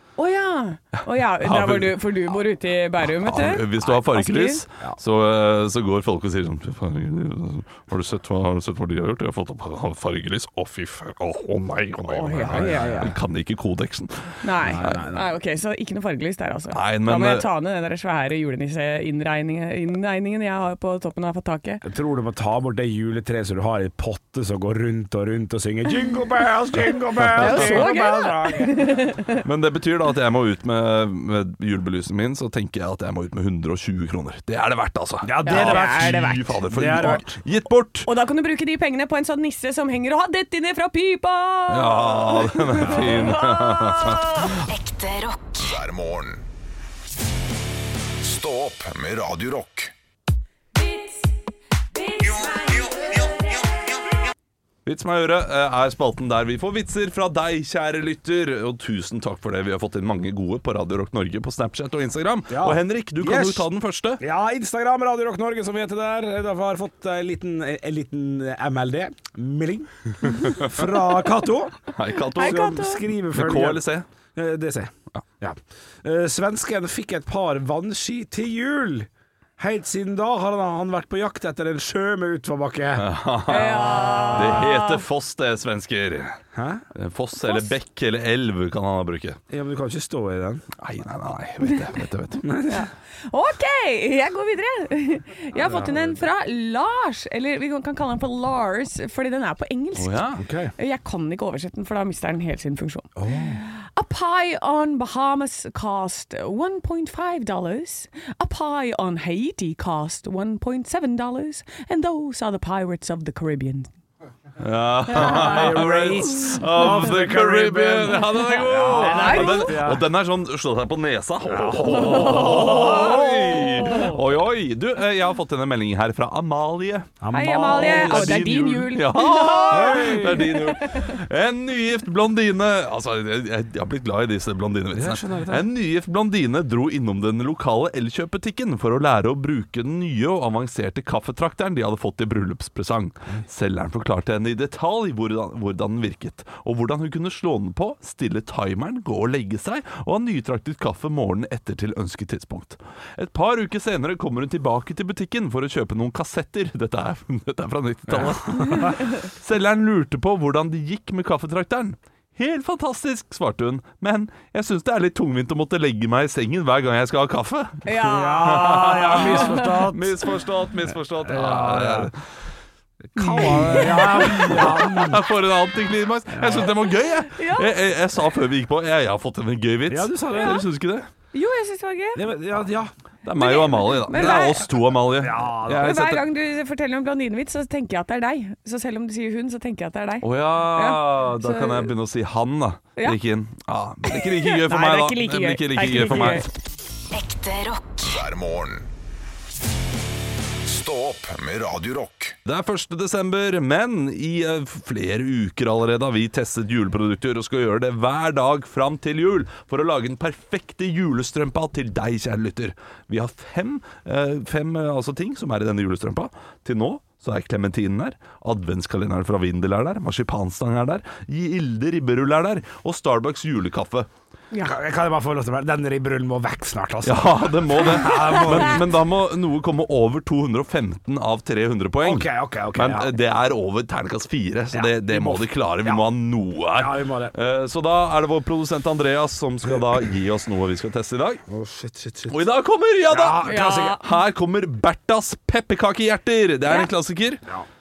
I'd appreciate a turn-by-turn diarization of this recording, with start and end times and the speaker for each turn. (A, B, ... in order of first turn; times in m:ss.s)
0:00.2-0:04.6 A
0:01.4-0:02.0 B
0:03.1-0:15.0 B
0:12.1-0:13.1 A
0:12.4-0:13.1 C
0:14.4-0:21.8 A
0:14.6-0:15.3 C
0:16.7-0:17.5 B
0:21.8-0:29.0 C
0:27.3-0:29.4 A
0:27.3-0:27.8 B
0:29.4-0:38.1 B
0:35.2-0:37.3 C
0:35.4-0:37.2 A
0:38.0-0:44.5 A
0:41.7-0:44.6 B
0:42.8-0:43.3 C
0:44.6-0:45.8 D
0:45.6-0:46.4 E
0:48.2-0:49.9 E
0:50.7-0:51.3 A
0:51.9-0:53.4 A
0:54.8-1:04.2 B
1:02.5-1:03.7 C
1:04.2-1:23.1 C
1:11.9-1:14.0 B
1:12.3-1:13.0 A
1:23.0-1:26.4 B
1:23.5-1:25.0 A
1:24.0-1:24.4 C
1:26.5-1:26.8 C
1:26.9-1:29.4 B
1:29.5-1:30.6 C
1:30.8-1:32.4 B
1:32.4-1:32.9 C
1:32.7-1:40.2 A
1:35.6-1:36.0 C
1:40.0-1:40.4 B
1:40.4-1:40.7 C
1:40.8-1:53.9 A
1:43.2-1:43.6 C
1:54.6-2:47.8 B
1:55.1-2:00.0 C
1:55.2-1:55.6 A
1:58.7-1:59.8 A
2:01.5-2:04.0 C
2:02.0-2:04.1 A
2:07.2-2:08.6 C
2:07.3-2:11.2 A
2:09.7-2:10.6 C
2:14.9-2:15.7 C
2:38.1-2:38.9 C
2:47.8-2:49.8 A
2:48.0-2:50.3 C
2:48.4-2:52.2 B
2:51.2-2:52.1 C
2:53.1-2:55.2 C
2:53.2-2:54.7 A
2:53.3-3:01.1 B
2:56.3-2:56.7 C
2:57.2-2:57.7 A
2:59.9-3:00.6 C
3:00.3-3:00.6 A
3:01.3-3:02.2 A
3:02.1-3:02.9 C
3:03.2-3:06.2 B
3:03.4-3:04.6 A
3:04.2-3:04.5 C
3:05.1-3:06.0 C
3:05.7-3:11.9 A
3:10.2-3:16.5 B
3:14.0-3:16.5 A
3:17.1-3:18.3 D
3:18.0-3:18.9 E
3:20.6-3:22.3 E
3:22.4-3:44.1 B
3:44.6-3:48.9 C
3:47.0-4:01.4 B
3:52.0-3:53.1 C
3:54.7-3:56.0 C
3:56.8-3:57.3 C
4:01.5-4:02.5 C
4:02.3-4:07.4 B
4:03.1-4:04.0 C
4:03.4-4:04.0 A